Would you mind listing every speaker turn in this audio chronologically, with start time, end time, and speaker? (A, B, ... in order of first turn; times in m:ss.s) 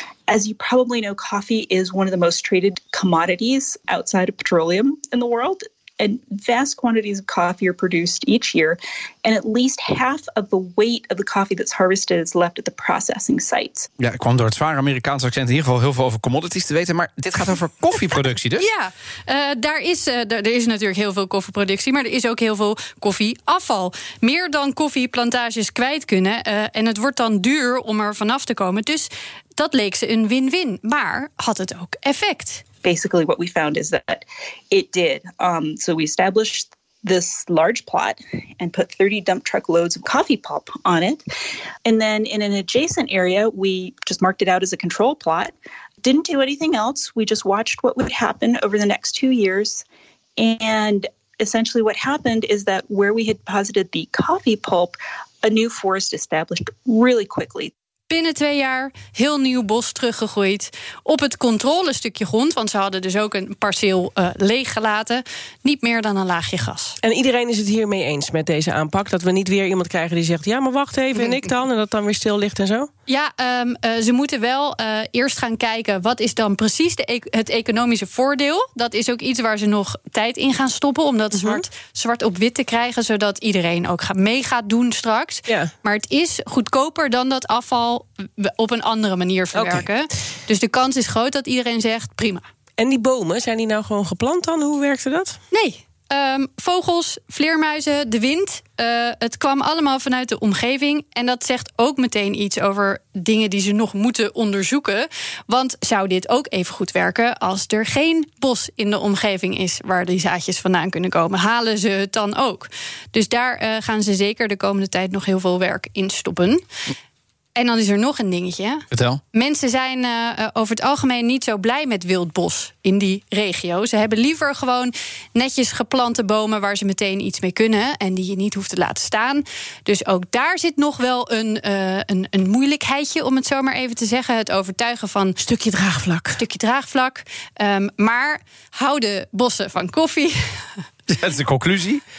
0:00.3-0:13.9 A
0:14.0-0:18.6 B
0:18.6-0:32.6 C
0:32.8-0:41.2 A
0:41.8-0:49.8 A
0:50.4-0:57.7 A
0:58.1-1:07.0 C
1:07.0-1:12.9 D
1:11.2-1:11.5 C
1:13.1-1:32.4 C
1:21.3-1:21.6 D
1:25.5-1:25.7 D
1:29.5-1:29.9 D
1:32.8-1:35.4 D
1:35.5-1:56.6 C
1:57.5-2:15.4 C
1:58.9-1:59.2 B
2:15.4-2:16.4 D
2:16.3-2:20.4 C
2:21.1-2:22.0 B